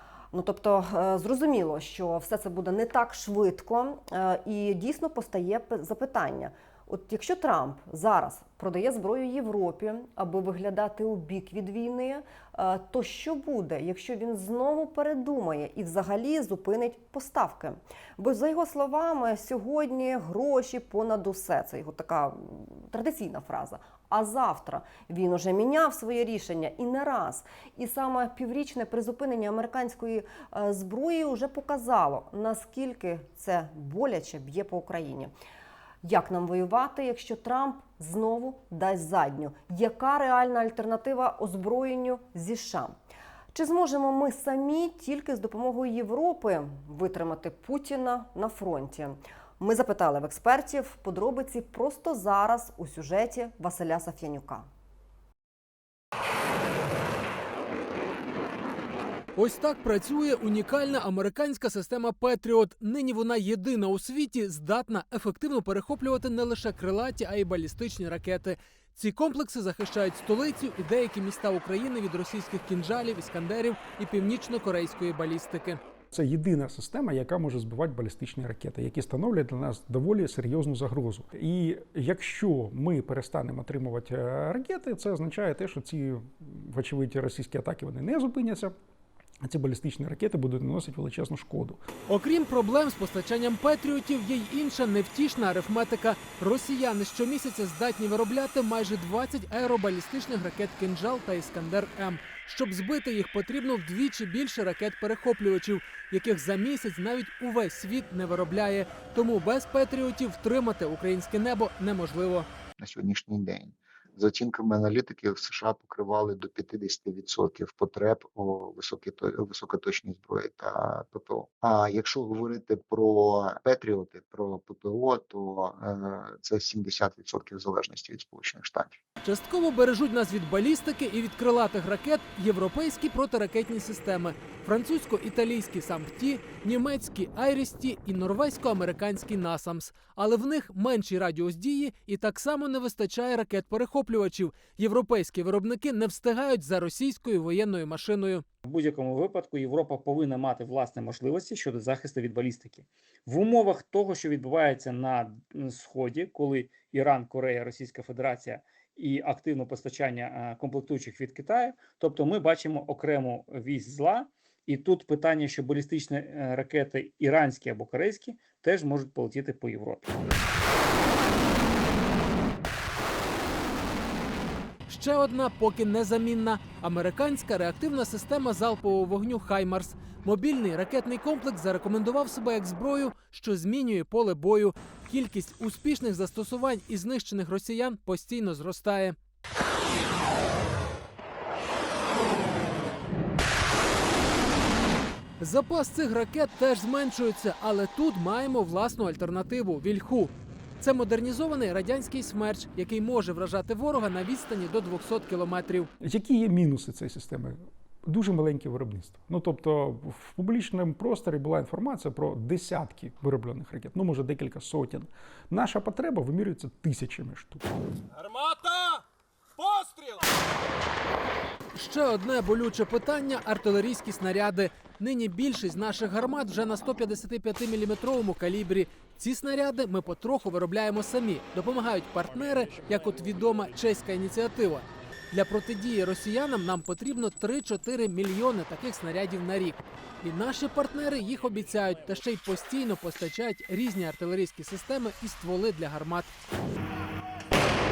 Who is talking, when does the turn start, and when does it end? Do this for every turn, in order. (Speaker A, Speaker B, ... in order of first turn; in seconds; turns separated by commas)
Speaker A: 0.3-35.3, Speaker A: 36.0-43.0, Speaker A: 43.5-54.7, Speaker B: 59.4-75.8, Speaker C: 76.1-88.8, Speaker C: 89.4-91.8, Speaker B: 92.1-112.5, Speaker D: 112.8-129.0, Speaker B: 129.2-148.4, Speaker E: 148.7-170.1, Speaker B: 174.9-189.2, Speaker B: 195.4-205.9, Speaker C: 206.0-217.7, Speaker B: 221.7-246.3